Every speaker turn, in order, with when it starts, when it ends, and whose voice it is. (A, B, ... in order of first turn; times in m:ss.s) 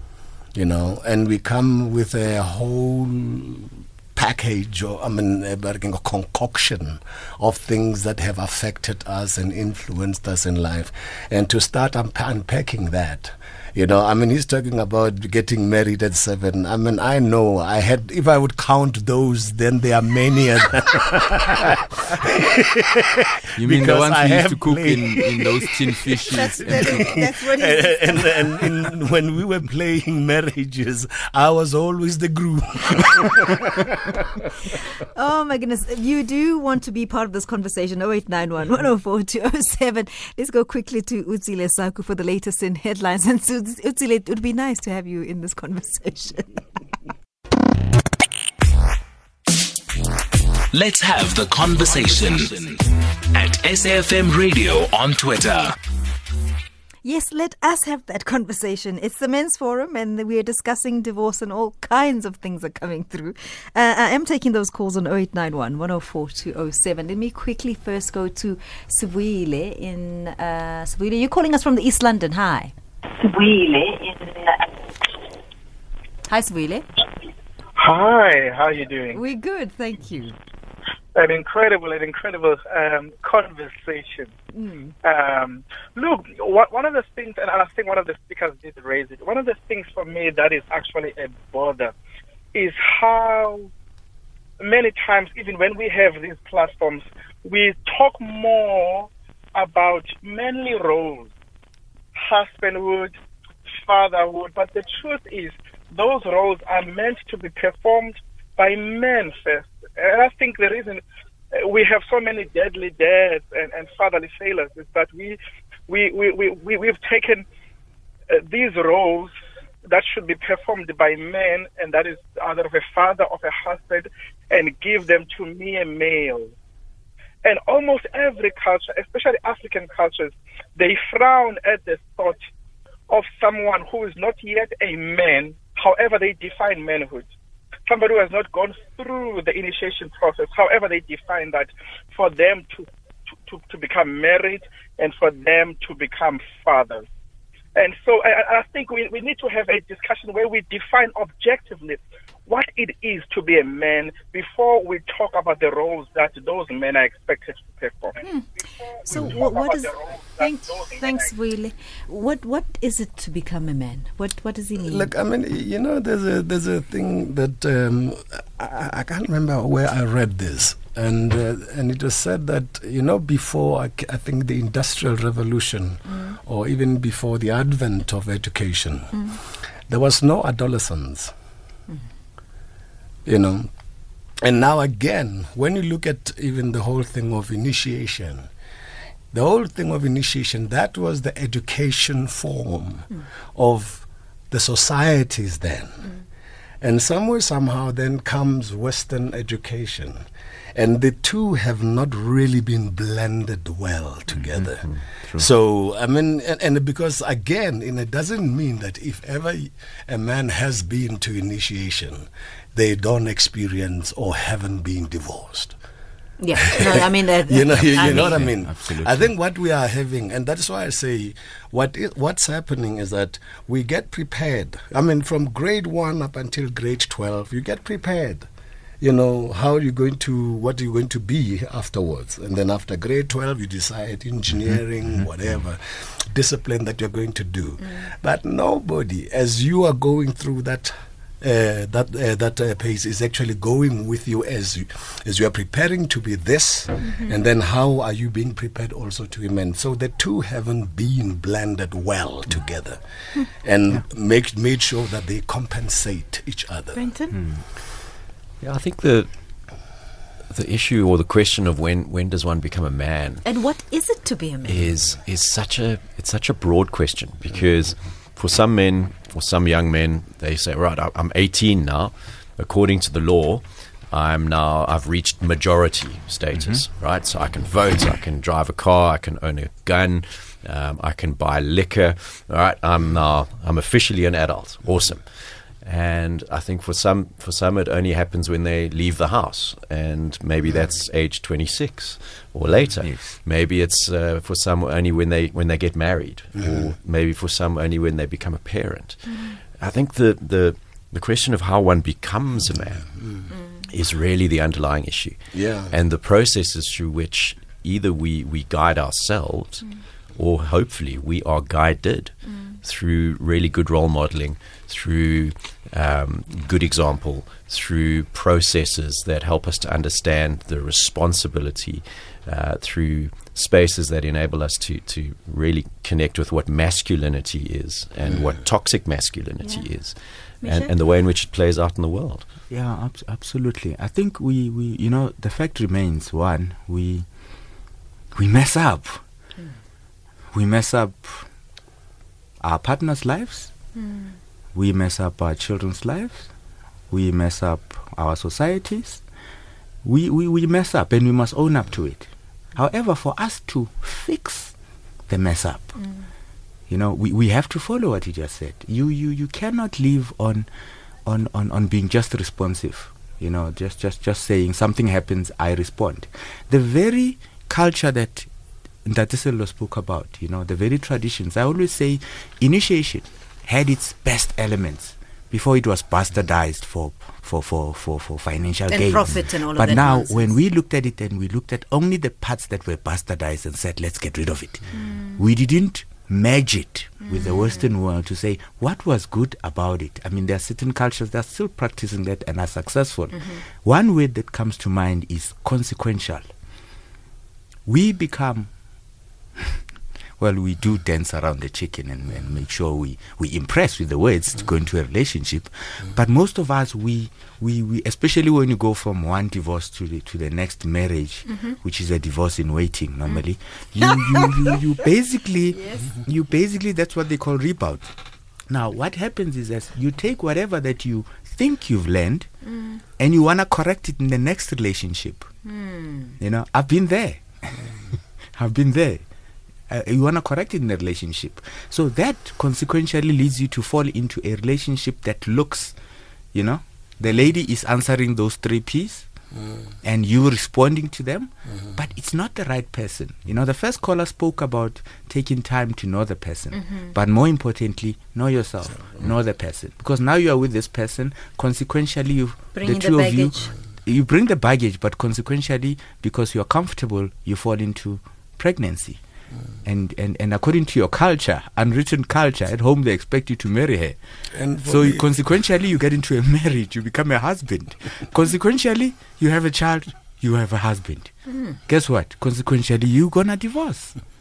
0:00.5-0:34.1 A
0:23.6-0:27.1 B
0:26.3-0:28.4 C
0:35.1-0:46.6 C
0:50.7-0:55.7 D
0:57.0-1:14.5 C
1:16.3-1:16.8 C
1:17.8-1:19.2 E
1:19.1-1:20.4 C
1:21.1-1:24.3 E
1:24.5-1:24.9 C
1:25.0-1:31.9 E
1:32.5-1:33.7 E
1:34.6-1:41.3 E
1:42.1-1:43.1 E
1:43.7-1:51.0 E
1:51.5-1:57.4 E
1:58.3-1:59.3 E
1:59.8-2:06.5 E
2:07.4-2:12.4 E
2:13.1-2:17.3 E
2:17.9-2:22.9 E
2:23.4-2:27.0 E
2:27.7-2:38.3 E
2:38.2-2:38.5 C
2:39.0-2:41.3 E
2:39.0-2:45.1 C
2:44.8-2:59.3 A
2:59.9-3:01.3 A
3:03.2-3:03.7 A
3:04.4-3:08.5 A
3:09.3-3:16.1 A
3:16.8-3:35.8 A
3:24.5-3:25.5 F
3:36.4-3:38.4 C
3:36.7-3:48.5 A
3:38.0-3:39.3 B
3:49.0-4:13.0 A
4:13.5-4:17.0 A
4:16.9-4:17.4 C
4:17.3-4:17.6 B
4:18.6-4:19.9 F
4:20.5-4:23.4 F
4:23.4-4:24.9 C
4:24.6-5:32.5 F
4:36.5-4:36.8 B
4:53.0-4:53.4 B
4:56.6-4:56.9 A
5:03.2-5:03.4 A
5:05.5-5:05.9 A
5:12.4-5:12.8 C
5:29.6-5:29.9 C
5:30.6-5:30.9 C
5:32.7-5:37.3 B
5:38.3-5:39.2 B
5:40.5-5:41.5 B
5:42.6-5:43.7 B
5:43.9-5:44.4 C
5:44.7-5:46.5 B
5:47.1-5:49.2 B
5:50.0-5:54.7 B
5:55.3-5:56.0 B
5:56.9-6:00.7 B
6:01.2-6:08.5 B
6:09.0-6:36.5 B
6:18.9-6:20.5 C
6:24.9-6:25.4 C
6:27.2-6:27.8 C
6:37.8-6:38.7 B
6:40.4-6:58.1 B
6:51.5-6:51.7 C
6:54.3-6:54.7 C
6:55.7-6:56.2 C
6:58.7-7:02.5 B
7:02.7-7:03.0 C
7:03.2-7:05.5 B
7:05.6-7:06.4 C
7:06.4-7:07.9 B
7:08.5-7:09.2 B
7:09.9-7:16.0 B
7:16.5-7:19.3 B
7:20.0-7:39.2 B
7:26.7-7:27.1 C
7:32.7-7:33.7 C
7:39.8-7:44.2 B
7:44.5-7:45.2 A
7:44.8-7:54.1 B